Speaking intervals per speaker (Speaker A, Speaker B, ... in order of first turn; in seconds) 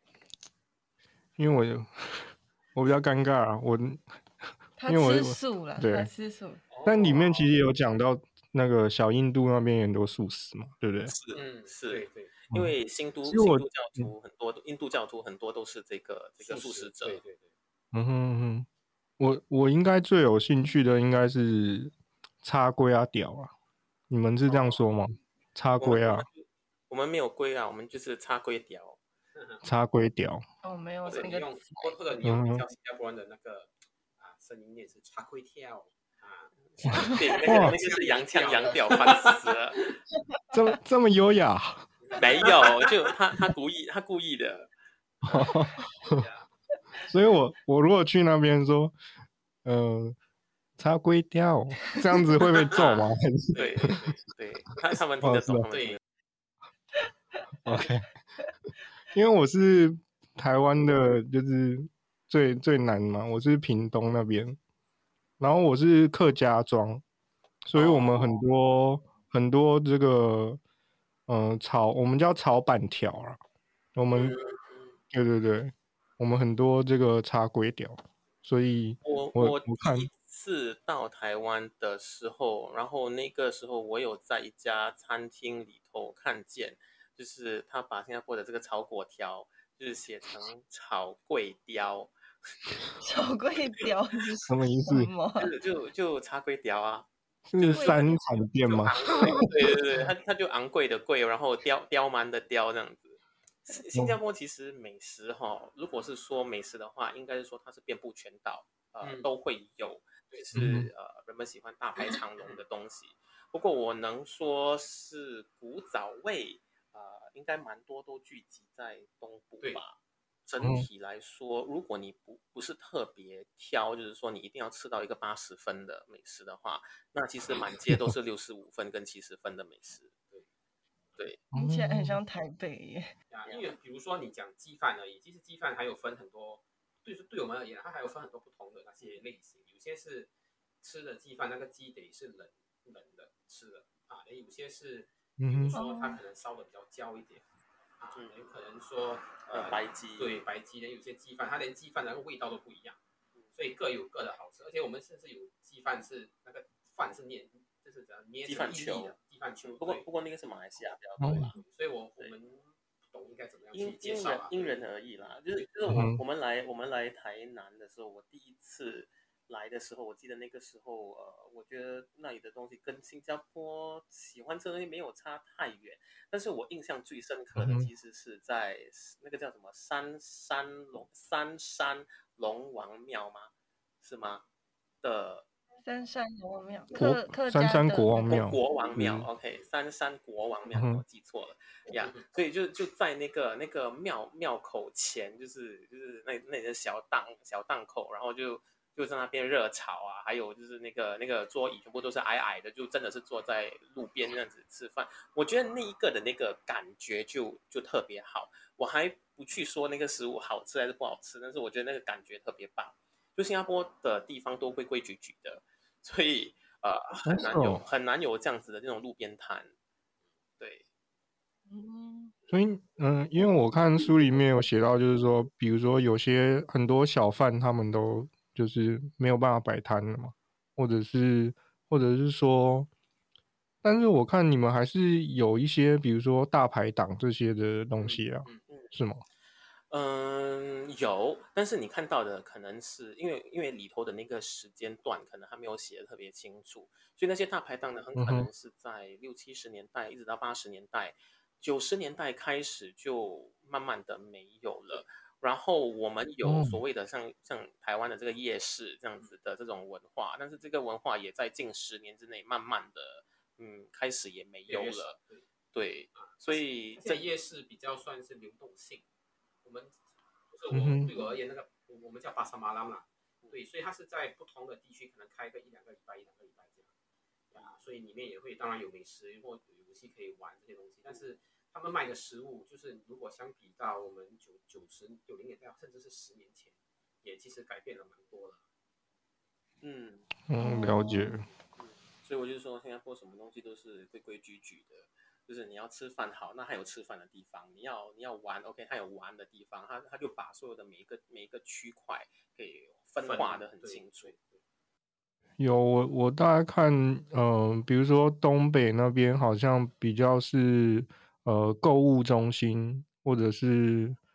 Speaker A: 1.4-4.0, 4.9-6.1, 6.8-11.1, 13.2-14.1, 17.9-18.7, 19.2-23.5, 24.1-26.3, 29.6-30.4, 32.2-32.6, 36.8-37.7, 40.5-41.9, 45.2-46.2, 47.1-48.9, 49.6-50.1, 50.8-53.6, 55.2-55.7, 57.6-58.1, 59.1-64.6, 65.4-67.0, 67.7-70.6, 71.3-73.4, 74.0-74.4, 75.1-80.1, 94.5-95.1, 97.5-99.3, 110.5-110.9, 120.6-120.9, 131.5-132.2, 145.4-145.8, 161.2-161.5, 165.9-166.2, 177.5-177.9, 186.9-189.3, 190.7-191.0, 217.2-217.8, 222.5-232.9, 233.8-239.2, 248.2-248.5, 256.4-256.8, 270.7-271.1, 290.5-291.4, 305.6-314.2
Speaker B: 4.8-6.6, 30.6-31.8, 93.0-95.5, 97.7-98.1, 131.5-133.1, 145.7-146.2, 185.8-188.5, 221.7-222.3, 290.6-291.3
Speaker C: 6.7-7.5, 11.3-12.3, 16.4-17.5, 24.5-24.9, 31.1-39.5, 42.0-42.5, 45.2-47.1, 53.5-54.2, 55.7-56.0, 109.0-109.3, 133.3-140.3, 140.8-147.4, 148.0-153.0, 153.5-160.1, 161.3-164.8, 237.9-238.6, 264.7-265.4, 266.1-269.1, 269.6-276.9, 277.5-288.6, 303.2-304.6
Speaker D: 11.1-17.2, 25.8-29.0, 36.7-39.8, 42.1-44.7, 52.7-56.0, 67.7-68.4, 74.1-74.9, 79.0-92.1, 95.3-130.1, 133.5-133.7, 149.4-150.4, 158.4-161.6, 163.7-184.4, 185.0-185.5, 188.3-219.7, 220.6-220.8, 238.7-238.9, 239.9-265.2, 265.7-267.2, 289.8-290.3, 291.8-304.3